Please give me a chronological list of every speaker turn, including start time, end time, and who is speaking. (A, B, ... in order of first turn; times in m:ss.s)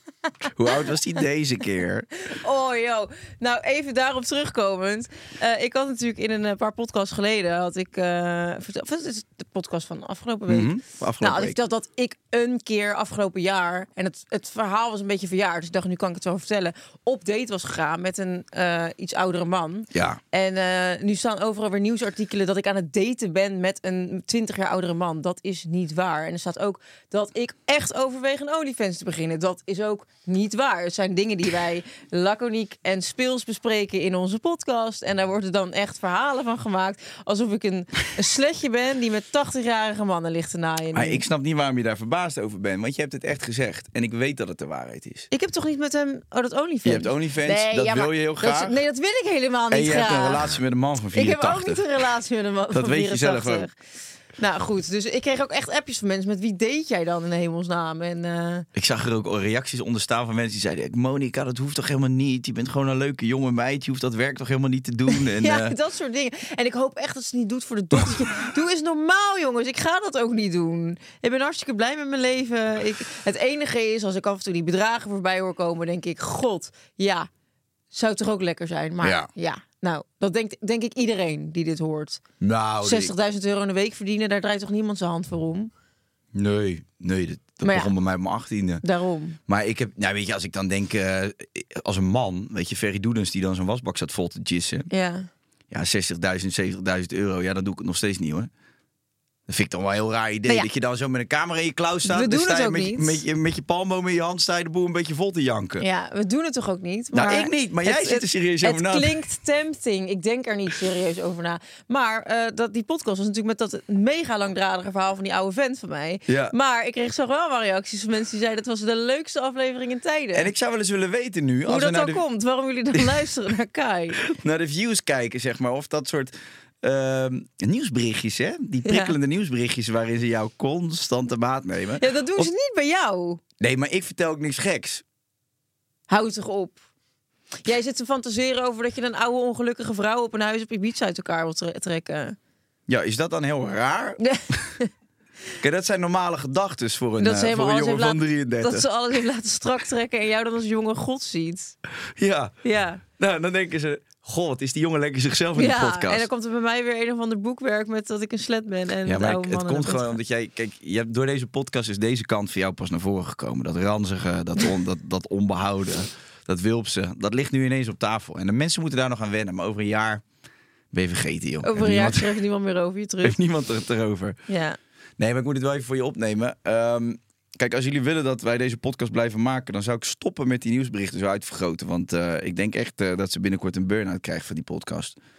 0:00.5-0:02.1 A
0:02.2-0:41.2 B
0:10.5-0:11.6 A
0:19.9-0:20.2 A
0:40.9-0:45.3 A
0:45.3-0:50.6 B
0:46.8-0:48.8 A
0:49.7-0:51.8 A
0:51.1-0:53.8 B
0:52.7-0:53.7 A
0:54.4-0:58.7 B
0:58.7-1:05.8 A
1:05.1-1:17.3 B
1:08.0-1:08.2 A
1:17.9-1:22.2 B
1:19.0-1:19.3 A
1:22.4-1:23.1 A
1:22.8-1:25.7 B
1:26.3-1:28.8 A
1:27.6-1:27.9 B
1:28.8-1:29.4 B
1:29.5-1:34.9 A
1:34.9-1:35.3 B
1:35.7-1:38.5 A
1:39.5-1:45.9 A
1:42.1-1:43.2 B
1:45.8-2:00.5 B
1:47.1-1:49.2 A
1:56.3-1:56.6 A
2:00.3-2:02.2 A
2:01.7-2:04.3 B
2:02.9-2:03.3 A
2:04.2-2:12.5 A
2:08.8-2:09.2 B
2:12.0-2:13.4 B
2:13.6-2:15.0 A
2:16.1-2:16.8 B
2:17.6-2:22.4 B
2:22.9-2:24.6 A
2:24.2-2:24.9 B
2:25.6-2:28.9 A
2:27.2-2:31.8 B
2:32.2-2:32.5 A
2:32.6-2:33.0 B
2:33.2-2:36.3 A
2:35.6-2:40.2 B
2:39.0-2:50.2 A
2:50.9-2:52.4 A
2:51.6-2:53.4 B
2:53.2-2:54.4 A
2:54.5-2:54.8 B
2:55.2-3:05.2 A